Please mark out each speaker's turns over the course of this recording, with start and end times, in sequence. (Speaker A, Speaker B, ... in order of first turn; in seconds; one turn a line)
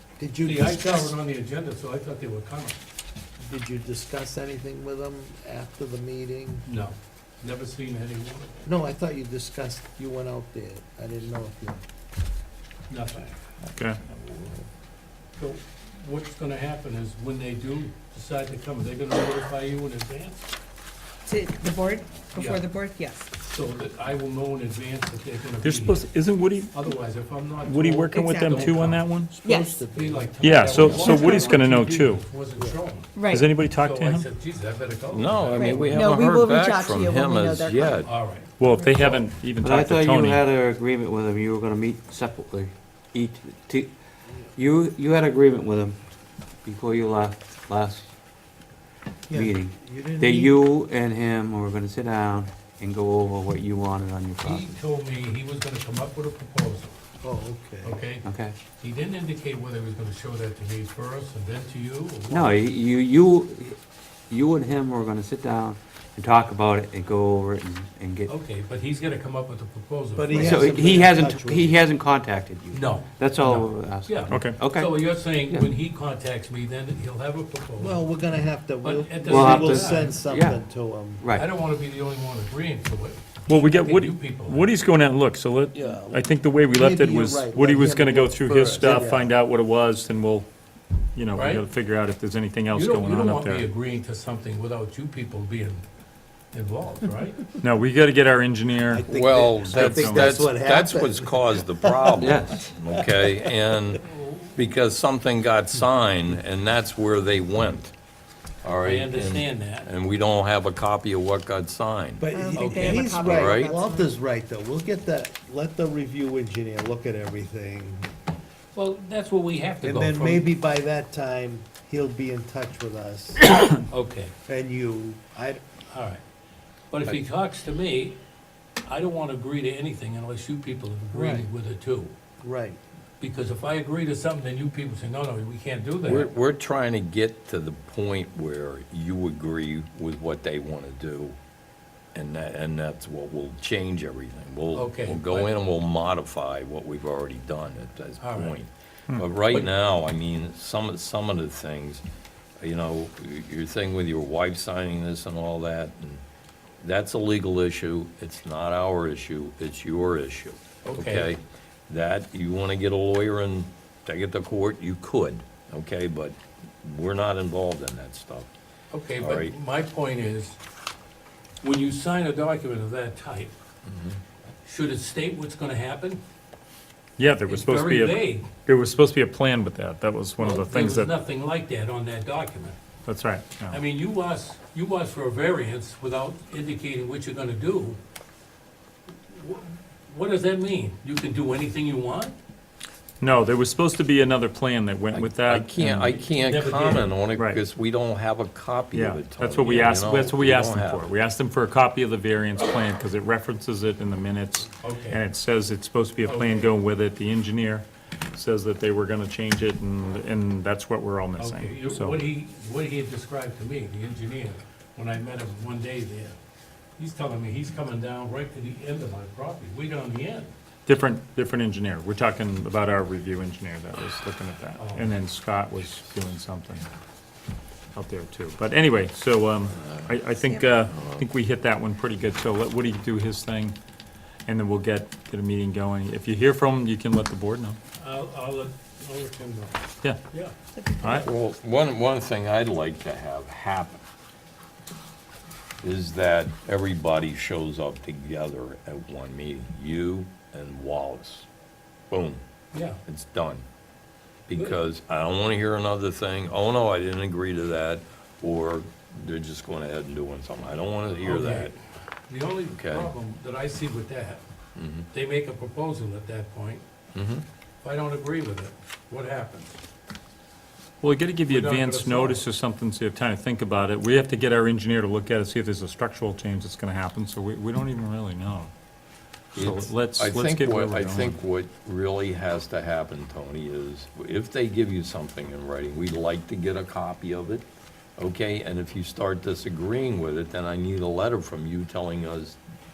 Speaker A: 0.2-1.1
Speaker B: 0.4-2.8
Speaker A: 3.4-6.6
Speaker B: 6.7-8.7
Speaker A: 8.6-11.8
Speaker B: 12.9-13.4
Speaker C: 13.7-14.0
Speaker D: 14.1-14.6
Speaker B: 15.4-20.4
Speaker E: 21.3-23.3
Speaker B: 22.3-22.7
Speaker B: 23.4-26.1
Speaker C: 25.6-26.9
Speaker B: 26.7-29.1
Speaker C: 27.6-29.4
Speaker E: 28.1-28.8
Speaker E: 29.4-29.8
Speaker A: 29.4-31.6
Speaker B: 29.9-35.9
Speaker C: 30.4-32.2
Speaker E: 31.1-31.5
Speaker E: 33.1-33.5
Speaker C: 33.3-34.2
Speaker D: 35.1-38.1
Speaker E: 35.5-38.1
Speaker B: 38.0-39.2
Speaker C: 38.6-40.5
Speaker E: 38.7-39.1
Speaker F: 39.6-43.9
Speaker F: 44.5-46.0
Speaker F: 46.6-48.1
Speaker A: 49.3-50.6
Speaker F: 49.3-54.8
Speaker B: 54.4-57.0
Speaker A: 57.2-58.0
Speaker B: 57.8-58.2
Speaker F: 58.2-58.5
Speaker B: 58.8-62.7
Speaker F: 62.3-63.8
Speaker F: 64.3-68.3
Speaker B: 68.3-70.7
Speaker A: 70.2-71.8
Speaker F: 70.3-75.7
Speaker B: 72.7-78.1
Speaker C: 74.3-74.6
Speaker A: 77.8-81.2
Speaker B: 78.8-80.2
Speaker F: 79.3-80.6
Speaker F: 81.2-81.5
Speaker B: 81.3-84.7
Speaker C: 83.5-90.5
Speaker A: 85.7-89.3
Speaker C: 91.1-93.7
Speaker B: 91.3-91.6
Speaker B: 92.7-95.8
Speaker B: 96.5-97.5
Speaker C: 97.6-100.4
Speaker A: 98.9-102.3
Speaker D: 99.1-104.0
Speaker F: 102.1-102.7
Speaker A: 103.1-103.4
Speaker B: 104.1-104.4
Speaker D: 104.5-107.9
Speaker D: 108.6-112.2
Speaker B: 108.8-109.9
Speaker A: 112.2-118.1
Speaker E: 112.3-114.1
Speaker B: 112.5-113.2
Speaker D: 113.2-113.7
Speaker B: 118.7-120.5
Speaker A: 119.8-123.5
Speaker B: 123.9-124.3
Speaker A: 124.5-125.6
Speaker B: 125.9-126.2
Speaker B: 126.9-128.2
Speaker B: 128.8-132.1
Speaker A: 131.1-131.5
Speaker A: 132.4-132.8
Speaker B: 133.2-136.3
Speaker D: 136.0-141.3
Speaker D: 142.1-152.0
Speaker B: 144.7-145.5
Speaker B: 148.2-148.6
Speaker D: 152.6-156.2
Speaker D: 156.8-168.5
Speaker B: 160.8-161.3
Speaker B: 168.9-170.6
Speaker D: 169.2-169.5
Speaker B: 171.6-173.5
Speaker D: 173.8-174.2
Speaker B: 174.6-176.2
Speaker C: 177.2-181.1
Speaker B: 177.5-178.5
Speaker B: 180.4-182.8
Speaker C: 183.1-183.8
Speaker B: 183.7-188.0
Speaker B: 189.3-192.3
Speaker C: 193.2-196.2
Speaker D: 195.1-201.1
Speaker B: 196.4-197.1
Speaker C: 197.3-197.6
Speaker C: 198.9-212.2
Speaker B: 204.8-205.2
Speaker B: 206.2-206.7
Speaker B: 211.4-216.3
Speaker B: 217.0-220.5
Speaker C: 220.8-226.8
Speaker B: 224.8-225.1
Speaker C: 227.9-233.8
Speaker D: 229.8-230.1
Speaker E: 230.4-230.8
Speaker D: 230.9-231.2
Speaker C: 234.5-237.8
Speaker B: 238.0-240.5
Speaker E: 240.7-241.3
Speaker C: 241.0-241.3
Speaker D: 241.2-244.0
Speaker D: 245.8-251.5
Speaker D: 252.1-252.4
Speaker B: 252.7-253.0
Speaker D: 253.1-253.6
Speaker D: 254.5-261.7
Speaker B: 261.2-261.7
Speaker B: 262.3-264.4
Speaker D: 262.7-263.1
Speaker D: 264.8-265.1
Speaker B: 265.1-266.8
Speaker D: 267.1-267.4
Speaker B: 267.8-269.8
Speaker C: 271.0-278.7
Speaker B: 271.5-272.4
Speaker C: 279.5-281.4
Speaker D: 279.5-287.6
Speaker D: 288.2-292.6